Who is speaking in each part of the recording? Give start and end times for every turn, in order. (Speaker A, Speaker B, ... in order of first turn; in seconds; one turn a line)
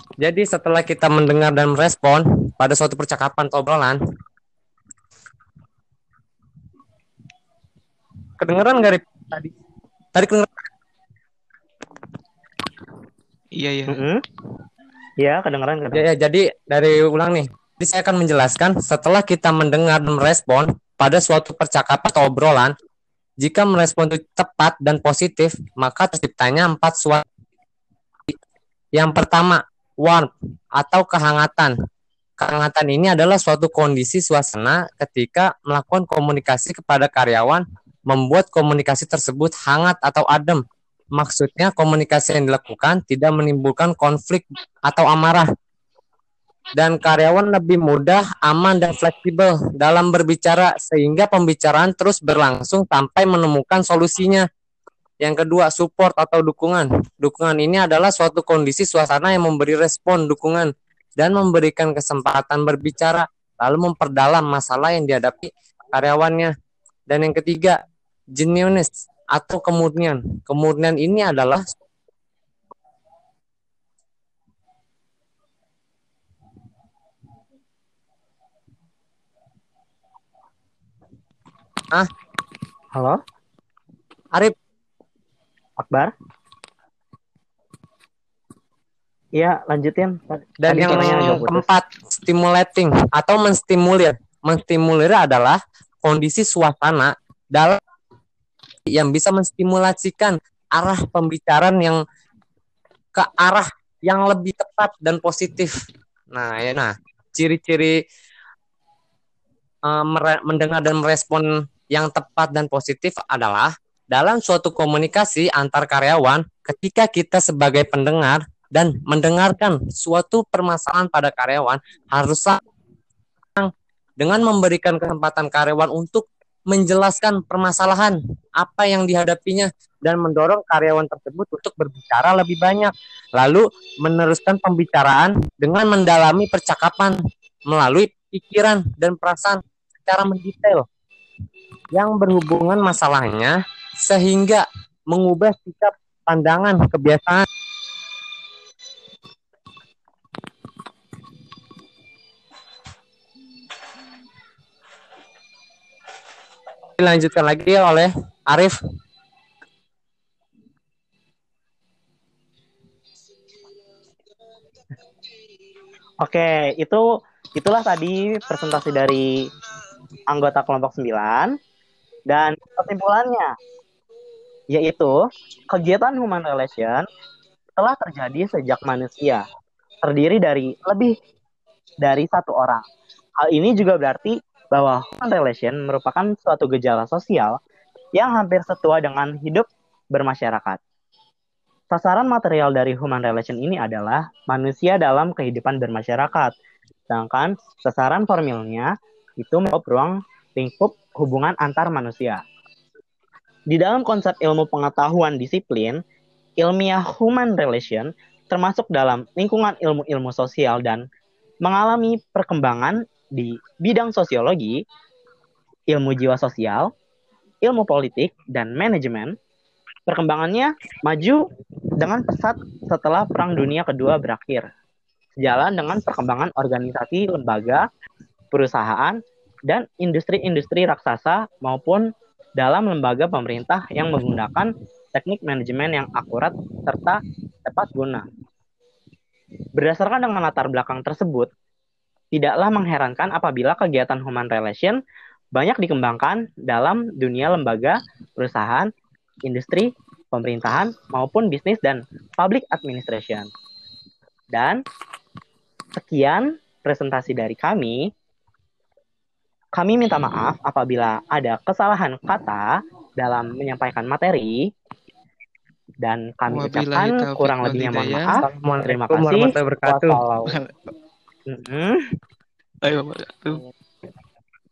Speaker A: 0.2-4.0
Speaker A: 8.4-9.5
Speaker A: 10.1-10.5
Speaker B: 13.6-14.1
Speaker C: 13.9-14.2
Speaker C: 15.2-16.0
Speaker A: 15.9-22.7
Speaker A: 23.4-27.2
Speaker A: 28.9-31.7
Speaker A: 32.4-40.6
Speaker A: 41.1-45.5
Speaker A: 46.8-54.5
Speaker A: 55.2-66.5
Speaker A: 67.1-67.8
Speaker A: 68.4-71.7
Speaker C: 85.8-86.1
Speaker C: 89.3-91.7
Speaker A: 90.6-97.8
Speaker B: 91.0-91.4
Speaker A: 98.9-102.0
Speaker A: 103.2-105.7
Speaker A: 106.3-108.0
Speaker A: 109.9-122.6
Speaker A: 123.6-137.2
Speaker A: 137.7-140.9
Speaker A: 141.9-147.5
Speaker A: 157.0-158.8
Speaker C: 166.2-167.0
Speaker C: 167.6-169.3
Speaker C: 170.3-171.5
Speaker C: 172.3-173.5
Speaker C: 174.7-175.2
Speaker C: 175.7-177.1
Speaker C: 177.8-179.4
Speaker C: 180.0-181.1
Speaker C: 182.0-182.8
Speaker C: 183.4-187.6
Speaker C: 188.1-190.8
Speaker C: 191.9-196.5
Speaker C: 197.1-202.4
Speaker C: 203.7-206.0
Speaker C: 206.6-211.0
Speaker C: 211.6-214.7
Speaker C: 215.9-216.9
Speaker C: 217.6-219.3
Speaker C: 220.1-221.4
Speaker C: 222.0-224.7
Speaker C: 225.4-227.8
Speaker C: 228.5-232.1
Speaker C: 232.6-238.2
Speaker C: 239.8-241.5
Speaker C: 242.3-245.0
Speaker C: 245.6-248.9
Speaker C: 249.5-253.5
Speaker C: 254.5-254.8
Speaker C: 256.0-258.0
Speaker C: 259.8-264.6
Speaker C: 266.0-270.5
Speaker B: 266.5-268.4
Speaker A: 268.4-270.2
Speaker B: 270.5-270.9
Speaker C: 271.5-272.0
Speaker B: 272.8-273.6